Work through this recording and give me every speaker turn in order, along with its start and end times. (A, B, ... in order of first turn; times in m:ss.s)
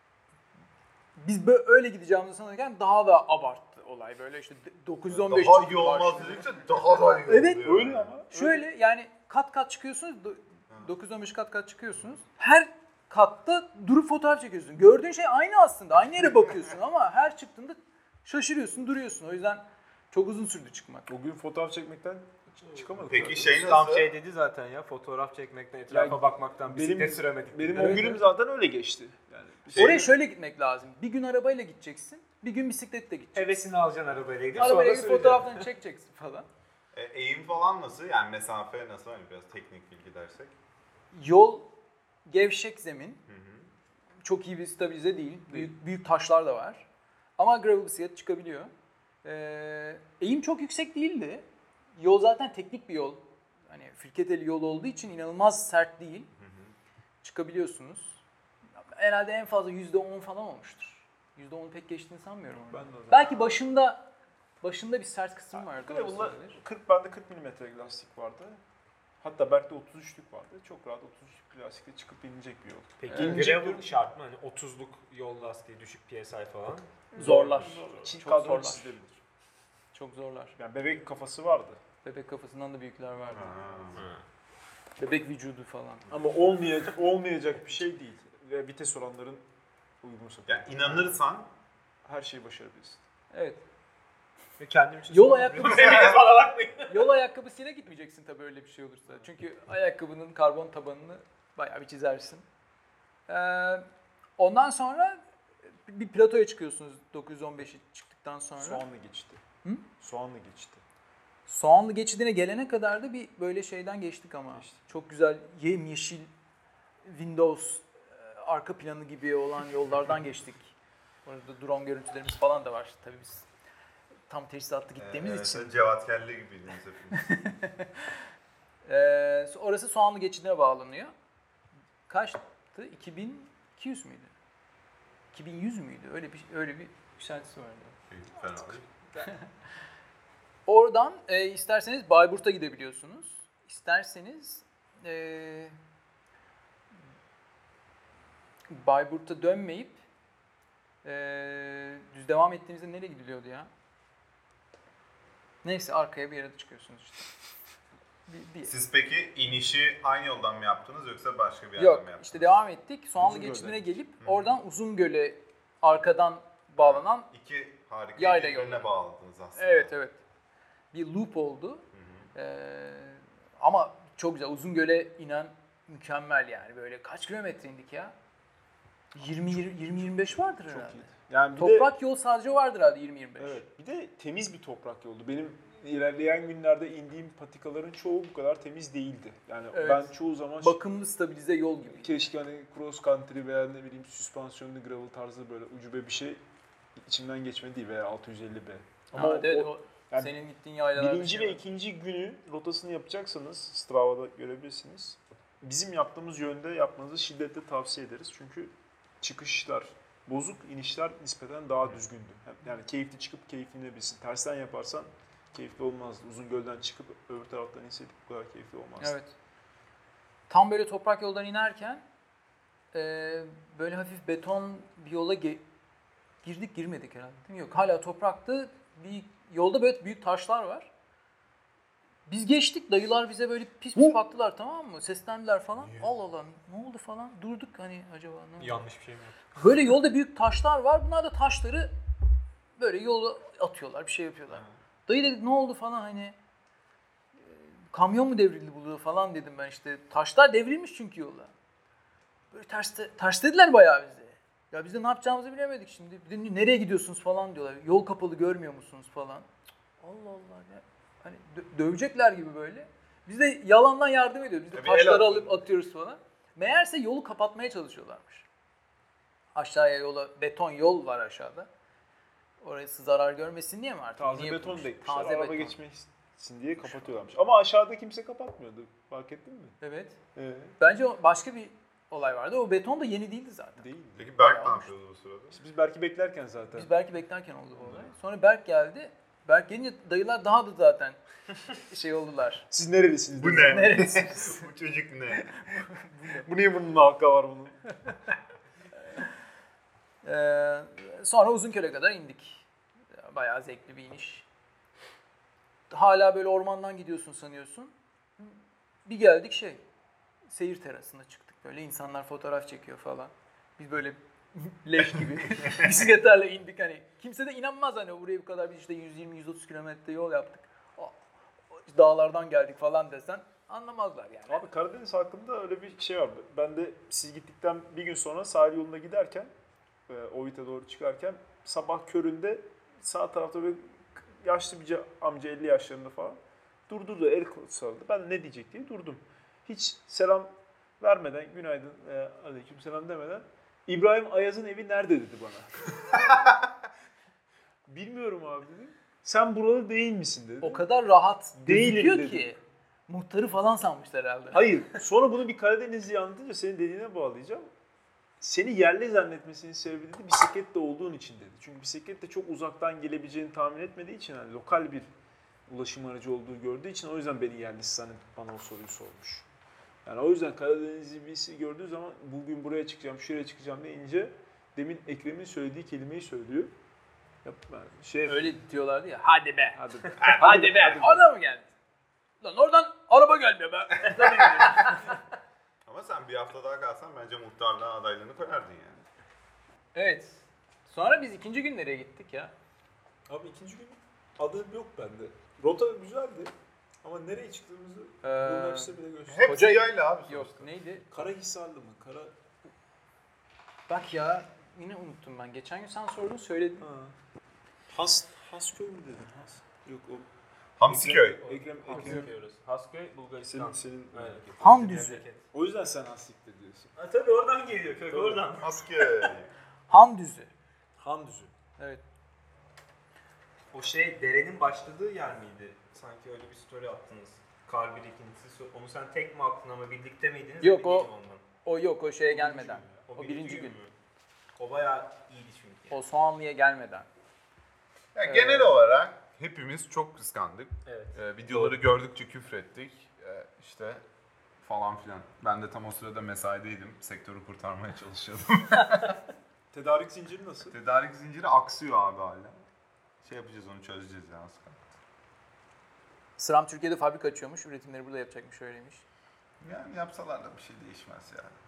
0:01.2-0:06.5 A
0:05.1-0:08.1 B
0:07.2-0:07.7 A
0:07.6-0:08.7 C
0:08.3-0:21.1 A
0:21.1-0:23.9 C
0:22.6-0:28.2 D
0:23.1-0:24.1 B
0:25.9-0:30.1 C
0:27.8-0:28.3 A
0:29.7-0:30.1 B
0:29.8-0:33.5 A
0:33.4-0:35.7 D
0:34.6-0:36.5 A
0:36.9-0:40.5 B
0:41.1-0:41.7 A
0:42.3-0:43.2 A
0:43.3-0:43.7 B
0:44.2-0:46.9 A
0:47.4-0:48.7 A
0:49.2-0:56.3 A
0:56.4-0:56.8 B
0:57.2-0:58.2 A
0:58.9-1:04.1 A
1:02.7-1:03.6 C
1:04.6-1:06.6 A
1:05.5-1:08.6 C
1:09.2-1:13.9 C
1:13.0-1:17.9 D
1:13.1-1:13.5 A
1:17.1-1:19.0 A
1:17.1-1:19.2 C
1:19.9-1:20.6 A
1:20.6-1:21.8 C
1:22.0-1:23.7 A
1:23.3-1:24.0 B
1:23.9-1:24.2 D
1:25.0-1:26.1 A
1:26.1-1:29.4 C
1:30.0-1:31.2 C
1:30.5-1:31.5 B
1:32.0-1:33.0 C
1:33.3-1:33.6 A
1:34.6-1:37.1 D
1:35.1-1:36.2 A
1:35.3-1:36.1 C
1:36.9-1:42.4 A
1:43.3-1:43.9 A
1:44.4-1:45.2 A
1:45.8-1:48.8 A
1:48.6-1:49.4 C
1:50.0-1:50.8 C
1:51.5-1:56.3 A
1:54.5-1:54.9 C
1:57.0-2:00.7 A
2:01.2-2:03.5 A
2:04.3-2:05.8 A
2:05.0-2:07.3 B
2:07.2-2:08.2 A
2:08.8-2:11.1 A
2:12.1-2:14.3 A
2:15.3-2:18.0 A
2:18.1-2:18.9 B
2:19.2-2:19.5 A
2:20.7-2:25.8 A
2:28.7-2:30.0 A
2:31.0-2:33.7 A
2:35.6-2:37.3 A
2:38.3-2:38.7 A
2:38.7-2:42.6 B
2:41.8-2:47.3 A
2:43.2-2:43.9 C
2:44.2-2:44.6 B
2:46.8-2:49.9 B
2:48.2-2:48.9 A
2:49.6-2:50.2 A
2:50.9-2:58.2 A
2:51.9-2:52.3 B
2:59.2-3:01.9 C
2:59.2-3:03.6 A
3:03.4-3:10.8 C
3:09.7-3:12.3 A
3:11.9-3:16.4 C
3:17.0-3:20.3 C
3:19.1-3:21.6 A
3:21.0-3:39.2 C
3:39.0-3:39.3 A
3:40.5-3:42.0 A
3:42.9-3:45.6 A
3:46.4-3:50.9 A
3:52.3-3:58.8 A
3:55.8-3:56.1 B
3:58.6-3:59.4 D
3:59.6-4:01.9 A
4:02.8-4:06.4 A
4:07.4-4:11.5 A
4:12.5-4:19.5 A
4:20.0-4:28.5 A
4:24.7-4:25.6 B
4:29.6-4:31.7 A
4:32.6-4:35.8 A
4:34.2-4:39.8 C
4:36.8-4:37.1 A
4:39.8-4:40.2 A
4:40.4-4:40.7 C
4:40.8-4:43.8 A
4:43.8-4:44.4 C
4:44.2-4:45.6 B
4:44.4-4:44.9 A
4:45.5-4:46.9 C
4:46.7-4:52.7 A
4:52.7-4:54.3 C
4:53.4-4:55.5 B
4:53.5-4:54.6 A
4:55.5-4:56.5 A
4:56.3-4:57.9 C
5:00.2-5:04.4 A
5:05.9-5:09.8 A
5:10.5-5:21.2 A
5:21.7-5:24.7 A
5:24.5-5:29.5 C
5:30.1-5:45.9 C
5:47.9-5:50.8 C
5:50.6-5:54.8 A
5:51.6-5:52.5 C
5:54.5-5:57.7 C
5:58.4-6:05.1 C
6:05.7-6:09.5 C
6:10.0-6:16.7 C
6:17.4-6:18.6 C
6:18.3-6:21.7 A
6:19.8-6:21.3 C
6:20.2-6:20.7 B
6:22.4-6:25.2 A
6:25.9-6:29.1 B
6:29.9-6:32.5 A
6:33.3-6:39.8 C
6:38.2-6:41.1 A
6:39.3-6:40.7 B
6:41.1-6:42.3 C
6:43.9-6:46.9 A
6:46.8-6:47.2 C
6:47.9-6:50.3 C
6:50.8-6:51.4 B
6:50.8-6:52.3 C
6:51.4-6:55.4 D
6:51.9-6:52.3 A
6:53.4-6:54.4 C
6:54.6-6:55.2 A
6:55.5-6:57.0 C
6:57.0-6:59.1 D
6:58.1-6:58.5 C
6:58.6-6:59.5 B
6:59.9-7:00.5 A
7:01.0-7:01.5 C
7:03.7-7:11.4 D
7:10.6-7:11.1 A
7:11.6-7:13.8 A
7:12.3-7:13.0 C
7:13.0-7:13.9 D
7:14.6-7:16.0 D
7:15.9-7:17.1 A
7:18.2-7:24.0 B
7:18.2-7:18.9 A
7:20.9-7:21.8 D
7:24.6-7:29.2 B
7:29.7-7:30.8 C
7:30.7-7:32.7 B
7:33.2-7:34.8 B
7:36.4-7:39.0 A
7:39.6-7:41.6 B